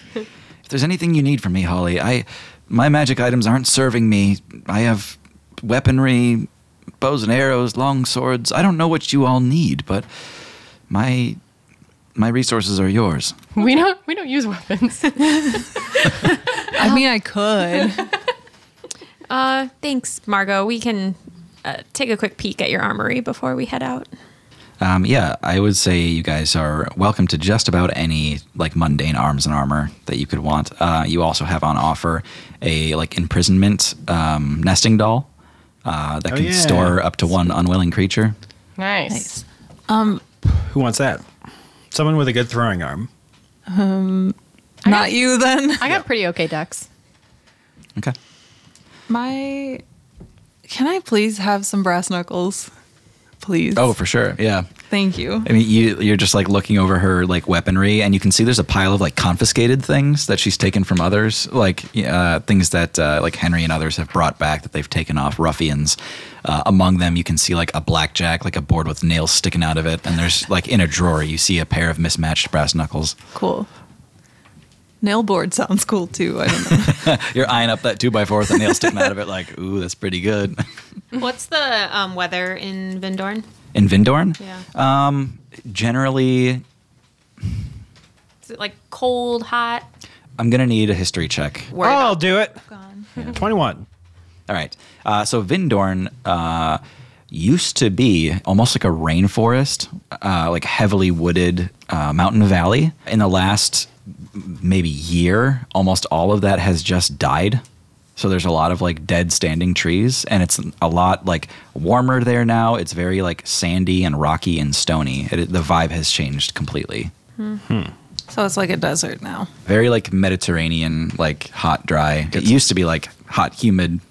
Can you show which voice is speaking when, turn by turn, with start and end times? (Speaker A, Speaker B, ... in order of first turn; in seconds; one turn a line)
Speaker A: 0.7-6.5
Speaker A: 7.0-10.1
Speaker A: 10.9-11.4
Speaker A: 12.2-13.4
Speaker B: 13.6-15.7
Speaker C: 16.8-18.1
Speaker D: 19.3-24.1
Speaker A: 24.8-35.3
Speaker A: 35.9-38.4
Speaker E: 36.3-37.0
Speaker B: 38.8-39.3
Speaker C: 39.1-40.2
Speaker E: 40.5-41.2
Speaker E: 41.9-43.1
Speaker C: 43.7-45.9
Speaker B: 45.8-46.9
Speaker C: 49.1-49.8
Speaker C: 50.7-52.7
Speaker C: 53.4-53.9
Speaker A: 53.8-54.7
Speaker C: 54.9-55.5
Speaker A: 55.4-73.2
Speaker C: 73.3-73.7
Speaker C: 75.0-77.2
Speaker A: 76.8-80.7
Speaker D: 81.1-83.5
Speaker A: 83.7-86.6
Speaker D: 88.5-89.9
Speaker A: 90.4-91.7
Speaker D: 91.7-92.2
Speaker E: 91.8-92.6
Speaker C: 92.7-93.1
Speaker E: 93.2-93.9
Speaker A: 94.5-107.6
Speaker A: 108.2-117.1
Speaker E: 117.7-117.9
Speaker C: 118.3-119.5
Speaker A: 119.7-124.0